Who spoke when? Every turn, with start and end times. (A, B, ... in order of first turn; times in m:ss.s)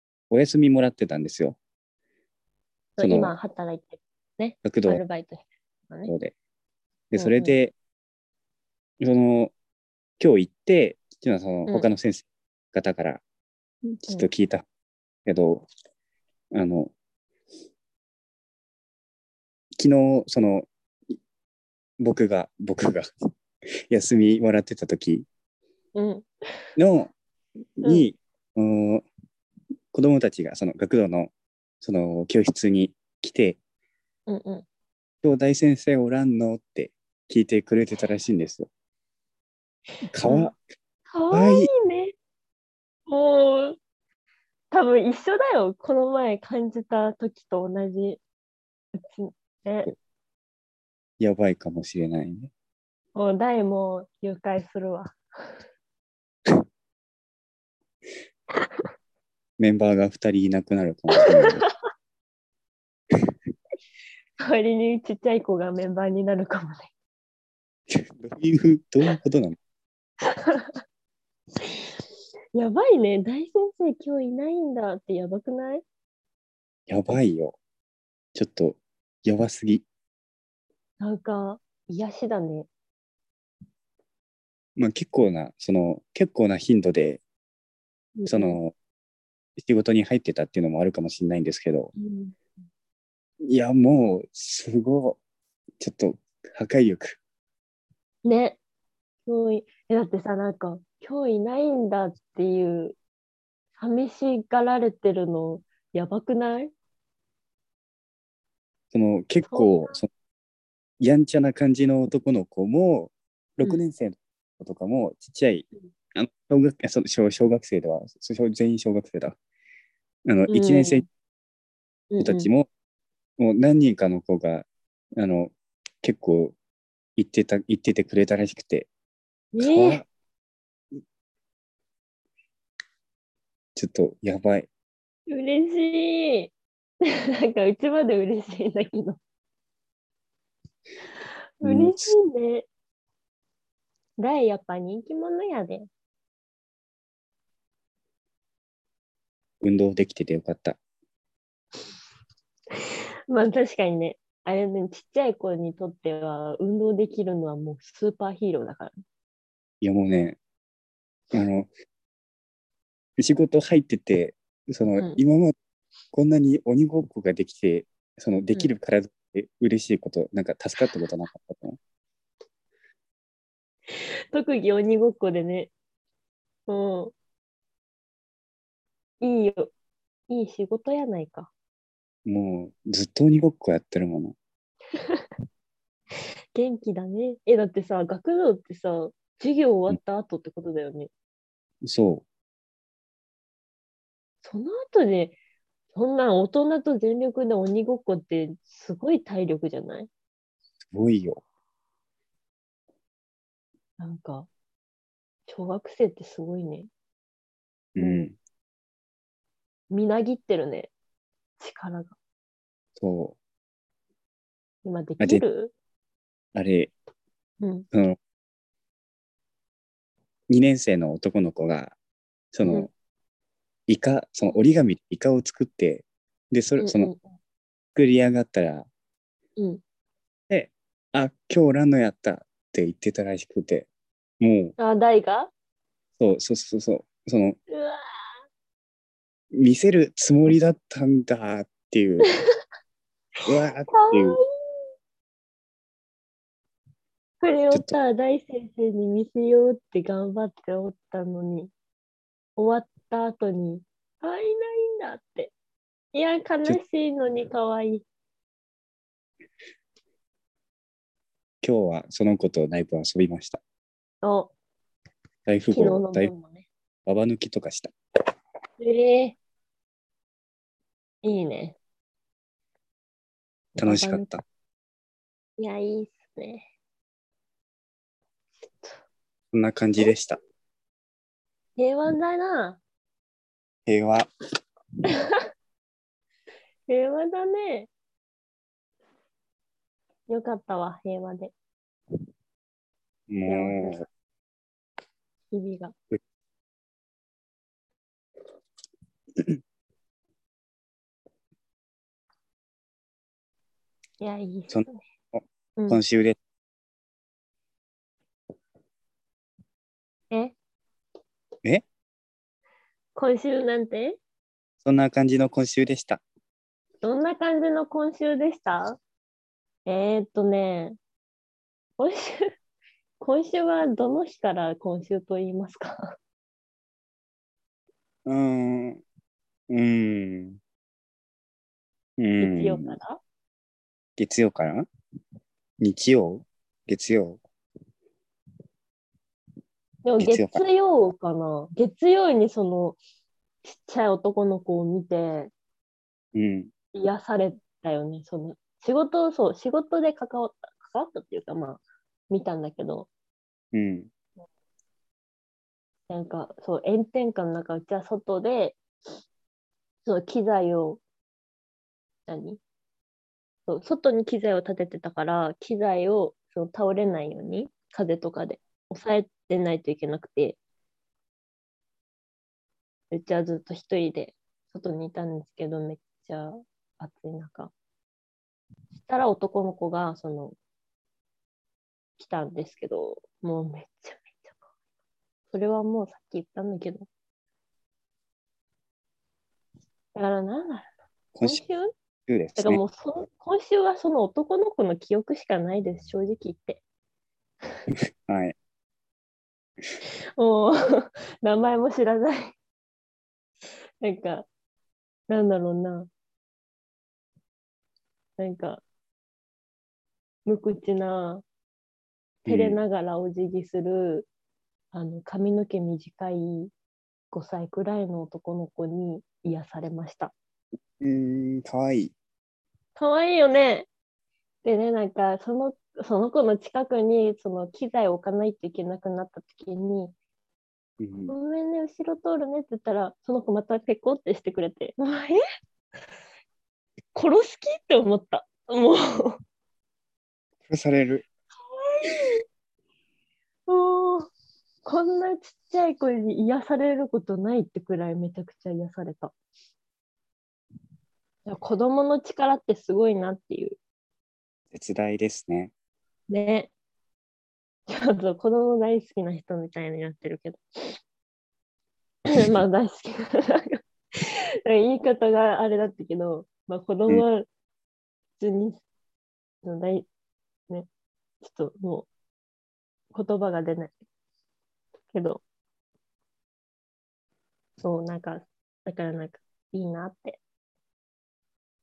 0:00.3-0:01.6 A
0:03.0-0:06.1 B
0:03.0-0:03.4 A
0:04.6-0:05.0 A
0:06.1-0:06.3 A
0:07.1-0:07.7 A
0:07.2-0:07.6 B
0:09.0-0:09.5 A
0:10.2-0:13.2 A
0:14.0-0:14.6 A
0:15.3-0:15.7 A
0:16.5-0:16.9 A
0:19.8-0:20.7 A
0:22.0-0:23.1 A
0:23.9-0:25.3 A
0:26.0-0:26.3 B
0:26.8-0:27.1 A
0:27.8-0:29.0 A
0:29.9-0:31.3 A
0:31.8-0:33.6 A
0:34.3-0:34.6 B
0:35.2-0:38.7 A
0:40.1-0:40.6 A
0:40.2-0:40.5 B
0:41.1-0:42.2 B
0:41.3-0:41.7 A
0:43.1-0:43.8 B
0:44.7-0:48.2 B
0:49.0-0:49.9 B
0:51.2-0:52.5 A
0:53.2-0:55.2 B
0:59.6-1:01.6 A
1:01.2-1:01.6 B
1:04.4-1:06.9 B
1:07.9-1:09.6 A
1:10.3-1:10.8 B
1:12.5-1:15.8 B
1:16.9-1:17.6 A
1:18.4-1:19.8 A
1:21.0-1:22.7 B
1:24.8-1:27.2 A
1:28.2-1:28.6 B
1:28.3-1:28.7 A
1:29.6-1:31.9 A
1:32.0-1:32.4 B
1:33.5-1:35.2 A
1:35.8-1:37.2 A
1:38.2-1:38.6 B
1:39.3-1:43.0 B
1:43.8-1:46.7 B
1:48.9-1:50.1 A
1:49.5-1:50.0 B
1:51.0-1:59.4 A
2:00.3-2:01.1 A
2:00.5-2:01.1 B
2:02.1-2:02.5 B
2:02.2-2:02.7 A
2:03.4-2:06.6 A
2:07.2-2:08.9 A
2:09.5-2:10.0 B
2:09.6-2:10.1 A
2:13.8-2:14.7 A
2:15.3-2:16.5 B
2:17.0-2:19.2 B
2:21.6-2:22.7 B
2:21.6-2:22.2 A
2:24.2-2:25.9 B
2:29.6-2:30.8 A
2:32.8-2:38.9 B
2:39.8-2:40.4 A
2:41.3-2:41.7 A
2:43.2-2:45.5 A
2:46.1-2:51.8 A
2:53.9-2:55.7 B
2:56.7-2:57.1 B
2:59.2-2:59.7 B
3:00.3-3:01.5 B
3:02.3-3:04.4 A
3:05.0-3:05.2 B
3:06.5-3:11.1 B
3:11.8-3:12.2 A
3:14.4-3:15.4 B
3:15.9-3:20.1 B
3:20.8-3:21.4 A
3:24.0-3:24.5 B
3:25.5-3:26.9 B
3:28.0-3:28.4 A
3:28.0-3:28.3 B
3:29.9-3:30.9 B
3:31.6-3:32.2 B
3:33.0-3:33.4 A
3:34.8-3:35.7 B
3:36.6-3:36.9 A
3:37.6-3:37.9 B
3:37.9-3:38.2 A
3:40.5-3:42.0 A
3:42.5-3:42.9 A
3:43.9-3:47.1 A
3:46.8-3:47.4 B
3:48.0-3:48.9 A
3:50.5-3:53.9 A
3:54.4-3:54.8 A
3:54.8-3:55.5 B
3:56.2-3:57.6 A
3:57.7-3:58.2 B
3:59.5-4:02.3 A
4:03.5-4:04.4 A
4:03.9-4:04.4 B
4:07.4-4:11.7 B
4:12.6-4:15.5 B
4:16.1-4:18.0 B
4:21.6-4:23.6 A
4:24.2-4:24.5 B
4:25.5-4:26.3 A
4:25.7-4:26.7 B
4:27.1-4:27.9 A
4:28.8-4:29.4 B
4:31.2-4:31.8 B
4:33.8-4:34.3 B
4:33.8-4:34.4 A
4:35.6-4:36.7 B
4:39.5-4:40.4 A
4:41.8-4:42.8 B
4:43.9-4:44.3 A
4:45.0-4:45.4 B
4:46.9-4:47.9 B
4:50.3-4:51.5 B
4:53.3-4:54.0 A
4:53.5-4:54.0 B
4:55.5-4:55.9 B
5:04.2-5:05.0 B
5:04.7-5:06.4 A
5:13.2-5:14.2 B
5:14.8-5:16.2 A
5:17.0-5:19.0 B
5:19.9-5:21.0 B
5:22.0-5:22.4 B
5:23.2-5:26.2 B
5:28.3-5:29.0 A
5:29.7-5:30.6 A
5:32.2-5:33.0 A
5:32.4-5:33.2 B
5:34.2-5:34.9 A
5:35.8-5:37.4 A
5:40.0-5:43.0 B
5:40.2-5:40.6 A
5:43.6-5:45.5 B
5:46.3-5:46.7 A
5:46.9-5:53.1 B
5:53.7-5:54.1 A
5:56.1-5:58.8 B
6:00.0-6:01.0 B
6:02.3-6:02.6 B
6:03.7-6:10.6 B
6:13.1-6:17.7 B
6:19.0-6:20.6 B
6:22.2-6:24.5 B
6:25.5-6:27.1 B
6:30.2-6:30.9 B
6:31.4-6:31.6 A
6:31.4-6:31.9 B
6:32.3-6:32.8 A
6:32.6-6:36.8 B
6:38.3-6:38.6 A
6:40.4-6:42.6 B
6:44.0-6:44.5 B
6:45.3-6:46.1 B
6:48.4-6:48.8 B
6:50.5-6:51.4 B
6:52.4-6:52.8 A
6:52.5-6:54.3 B
6:54.9-6:56.7 B
6:57.3-7:00.3 B
7:01.0-7:02.1 A
7:03.0-7:03.9 B
7:04.6-7:10.1 B
7:11.0-7:11.4 A
7:11.3-7:15.4 B
7:17.1-7:19.4 B
7:20.7-7:21.2 A
7:21.8-7:22.4 B
7:23.7-7:24.3 B
7:24.8-7:29.3 B
7:31.5-7:33.8 B
7:34.7-7:35.7 A
7:36.3-7:36.7 B
7:37.9-7:41.0 B
7:42.3-7:47.5 B
7:48.4-7:48.8 B
7:49.6-7:50.1 B
7:51.4-7:52.1 B
7:53.1-7:53.9 B
7:55.1-7:55.4 B
7:57.8-8:00.4 B